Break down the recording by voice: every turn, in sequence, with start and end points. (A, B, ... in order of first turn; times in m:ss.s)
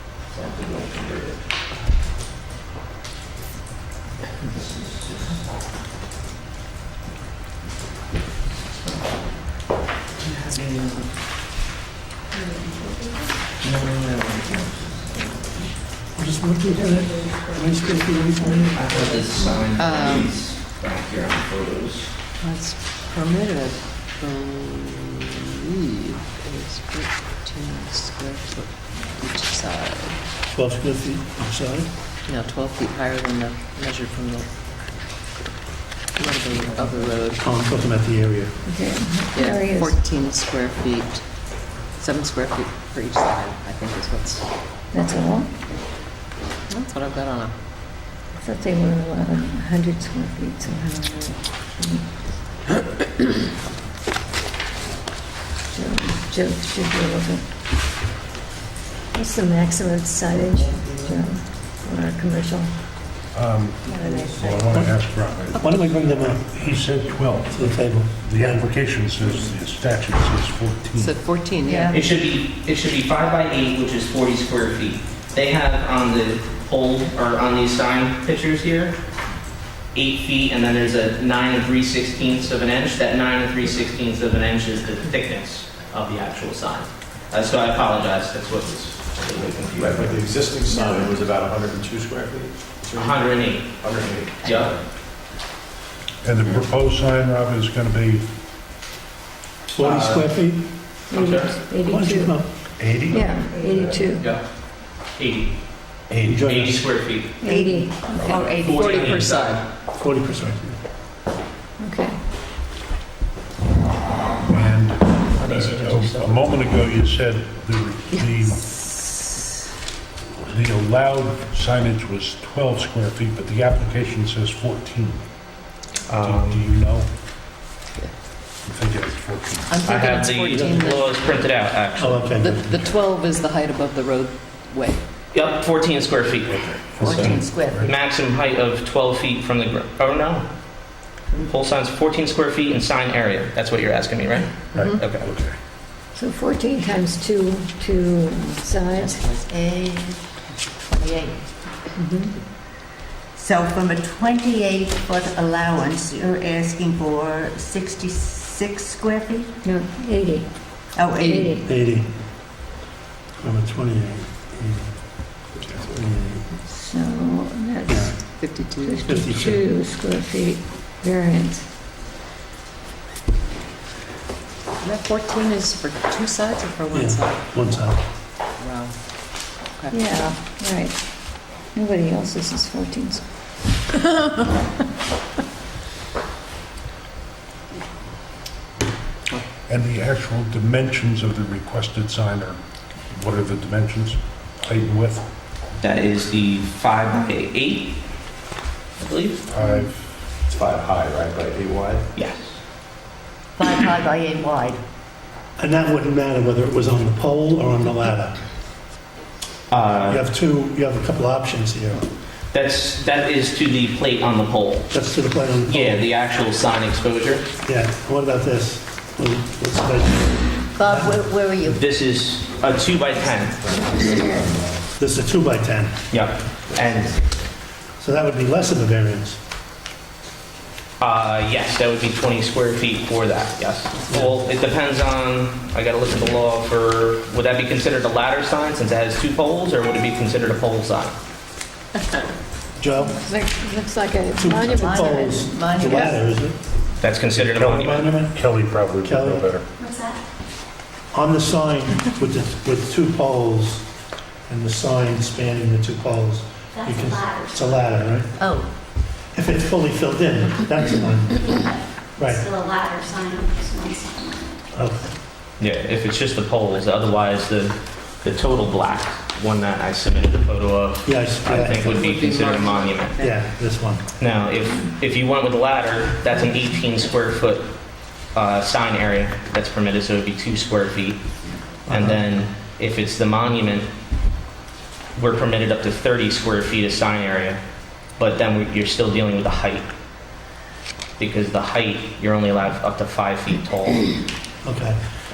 0:00.3-0:01.4 A
0:04.5-0:05.4 A
0:08.7-0:09.1 A
0:10.2-0:11.1 A
0:13.6-0:15.3 A
0:16.2-0:18.8 B
0:18.7-0:22.1 A
0:19.8-0:20.3 C
0:22.4-0:30.2 C
0:30.5-0:31.9 B
0:32.3-0:34.5 C
0:36.2-0:37.4 C
0:37.4-0:38.6 B
0:38.6-0:40.0 D
0:39.3-0:41.2 C
0:41.9-0:44.5 C
0:44.9-0:45.5 D
0:46.7-0:47.6 C
0:48.4-0:52.1 D
0:55.7-0:57.4 D
0:59.1-1:02.7 D
1:03.3-1:11.2 E
1:03.8-1:04.5 D
1:04.1-1:04.7 F
1:05.5-1:06.5 B
1:07.5-1:08.6 B
1:11.0-1:12.0 C
1:11.6-1:11.9 B
1:11.9-1:19.0 A
1:19.9-1:30.2 A
1:29.8-1:34.7 G
1:30.8-1:31.1 D
1:33.0-1:33.8 A
1:34.4-1:34.8 A
1:36.2-1:38.3 E
1:39.8-1:40.3 A
1:39.8-1:40.9 B
1:41.1-1:42.4 D
1:41.1-1:41.6 A
1:41.8-1:42.4 B
1:42.8-1:44.0 E
1:43.1-1:44.3 D
1:44.2-1:44.4 A
1:45.1-1:45.6 A
1:46.1-1:46.8 B
1:46.2-1:46.4 E
1:46.2-1:47.4 A
1:47.4-1:48.5 D
1:47.5-1:49.0 F
1:48.2-1:49.6 A
1:48.6-1:49.6 C
1:50.0-1:50.8 B
1:51.8-1:52.2 D
1:54.5-1:58.7 E
1:55.4-1:56.6 A
2:00.4-2:05.2 E
2:06.1-2:06.6 A
2:06.2-2:07.1 E
2:08.6-2:09.8 E
2:09.7-2:11.5 C
2:09.8-2:12.4 A
2:10.5-2:10.9 B
2:12.0-2:12.7 B
2:12.4-2:15.0 C
2:15.3-2:20.4 A
2:16.5-2:18.0 E
2:17.0-2:17.8 F
2:21.3-2:25.3 A
2:24.7-2:25.5 E
2:26.1-2:29.2 D
2:28.9-2:29.4 C
2:29.4-2:30.2 F
2:30.8-2:31.4 F
2:32.0-2:32.3 D
2:33.4-2:39.5 F
2:39.6-2:40.6 D
2:40.9-2:41.6 F
2:41.2-2:41.7 D
2:41.3-2:42.1 B
2:43.4-2:45.3 B
2:45.6-2:46.1 G
2:45.9-2:46.6 B
2:46.7-2:51.6 D
2:47.9-2:48.1 B
2:48.4-2:49.2 C
2:49.1-2:49.6 B
2:54.8-2:57.9 C
2:56.9-2:58.0 B
2:58.6-2:59.0 C
2:59.8-3:00.2 C
2:59.9-3:01.0 D
3:01.6-3:03.2 D
3:09.7-3:15.3 E
3:15.8-3:18.0 A
3:19.0-3:19.4 A
3:19.5-3:20.1 E
3:20.5-3:22.1 G
3:22.2-3:22.6 A
3:23.6-3:24.8 F
3:25.6-3:28.4 B
3:29.7-3:30.3 A
3:30.0-3:32.1 B
3:32.5-3:34.9 A
3:34.9-3:36.1 B
3:35.7-3:37.4 A
3:37.6-3:41.7 B
3:40.8-3:41.7 F
3:41.6-3:43.6 A
3:43.6-3:44.8 G
3:45.0-3:46.0 B
3:46.1-3:47.2 A
3:46.7-3:47.2 G
3:48.0-3:49.4 B
3:51.0-4:01.2 A
3:54.1-3:54.4 B
4:02.8-4:03.2 B
4:03.0-4:06.2 D
4:04.4-4:06.6 B
4:05.0-4:05.9 F
4:07.0-4:08.1 A
4:07.3-4:09.6 E
4:07.9-4:08.3 B
4:09.0-4:09.5 B
4:09.8-4:10.2 H
4:11.1-4:13.9 B
4:14.5-4:18.4 B
4:16.8-4:17.8 H
4:19.3-4:21.6 B
4:22.2-4:22.5 B
4:22.3-4:24.4 H
4:24.7-4:25.1 B
4:25.6-4:33.2 A
4:31.0-4:31.9 B
4:31.5-4:33.4 C
4:33.2-4:34.0 B
4:34.2-4:37.7 A
4:38.3-4:41.2 A
4:41.9-4:43.9 A
4:41.9-4:42.2 B
4:45.2-4:47.6 A
4:48.2-4:49.9 A
4:51.2-4:54.1 A
4:54.6-4:55.0 B